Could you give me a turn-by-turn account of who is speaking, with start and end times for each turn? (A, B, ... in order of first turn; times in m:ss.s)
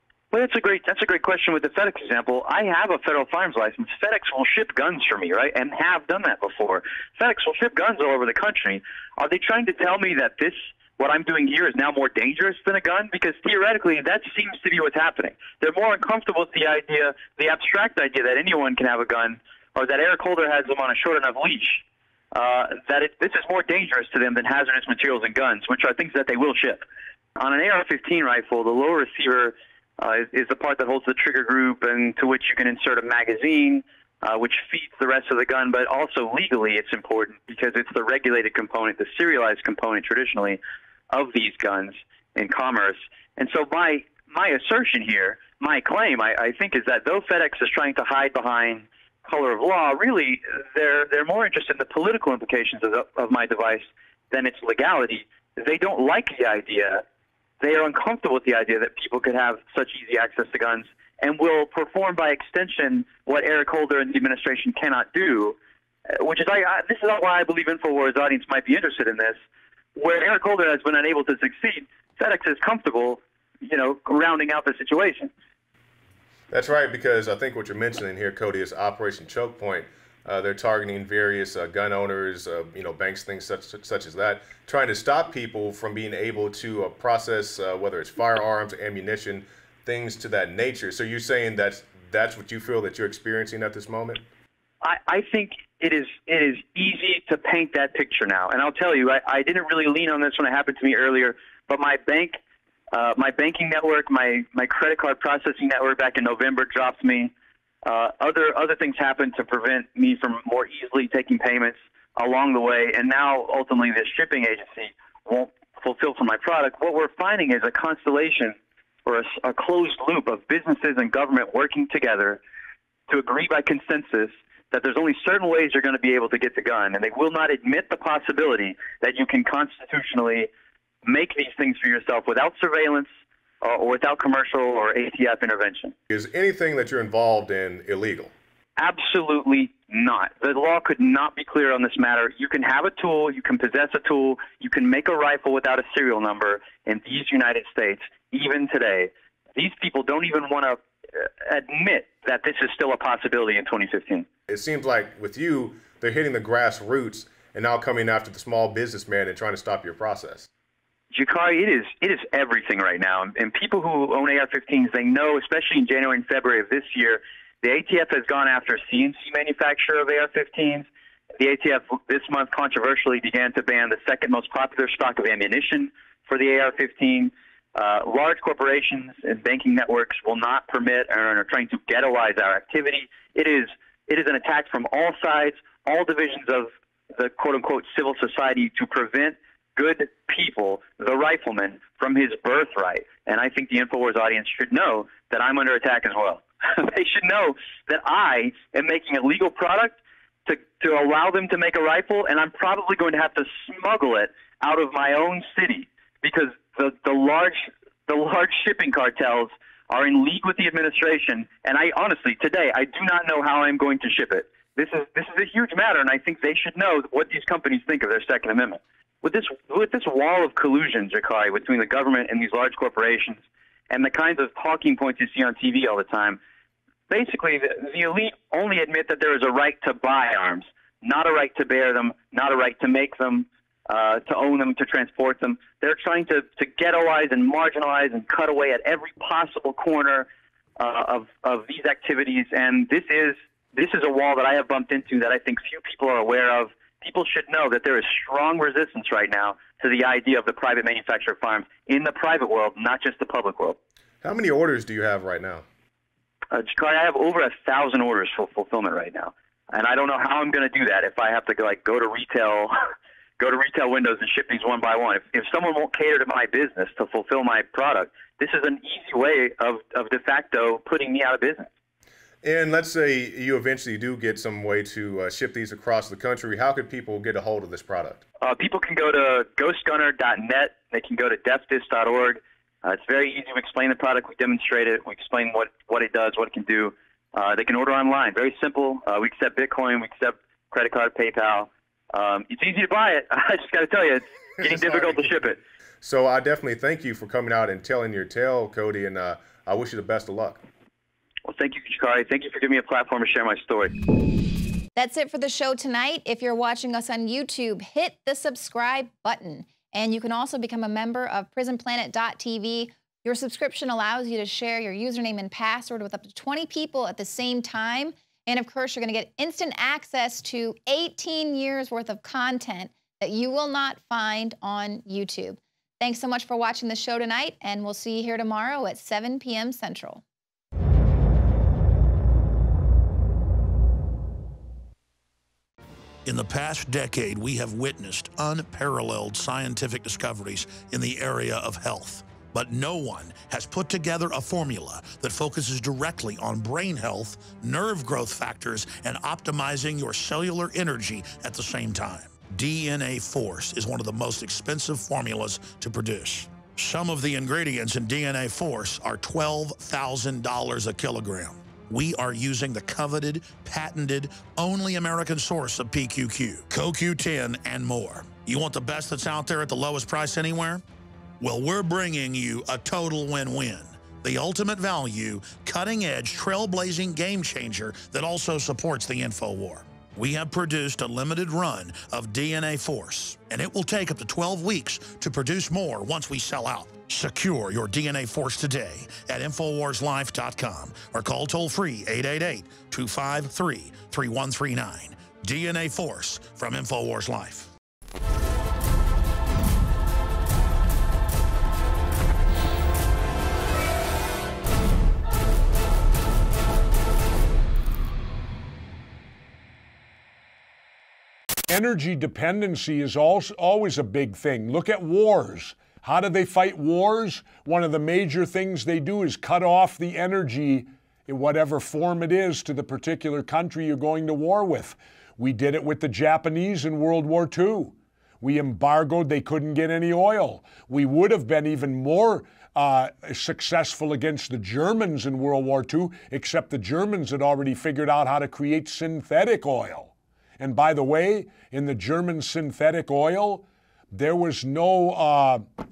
0:00.3-0:26.8 A
0:27.4-0:40.6 A
0:41.1-0:57.0 A
0:57.6-1:05.6 A
1:06.1-1:09.4 A
1:10.0-1:15.3 A
1:16.5-1:34.2 B
1:34.8-1:42.4 A
1:42.9-1:47.3 A
1:47.8-2:02.4 A
2:03.1-2:10.5 A
2:11.0-2:13.1 A
2:13.6-2:15.9 A
2:16.1-2:18.3 B
2:18.8-2:34.3 A
2:34.5-2:40.5 B
2:41.1-2:50.8 A
2:51.4-3:46.4 A
3:47.1-4:13.8 A
4:14.2-4:15.6 B
4:16.5-4:22.7 A
4:23.4-4:31.7 A
4:32.4-4:38.2 B
4:38.4-4:55.6 A
4:54.6-4:55.3 B
4:56.0-5:00.6 B
5:01.4-5:03.9 A
5:05.0-5:30.2 C
5:36.2-6:10.8 D
6:11.4-6:37.7 D
6:51.7-7:25.7 E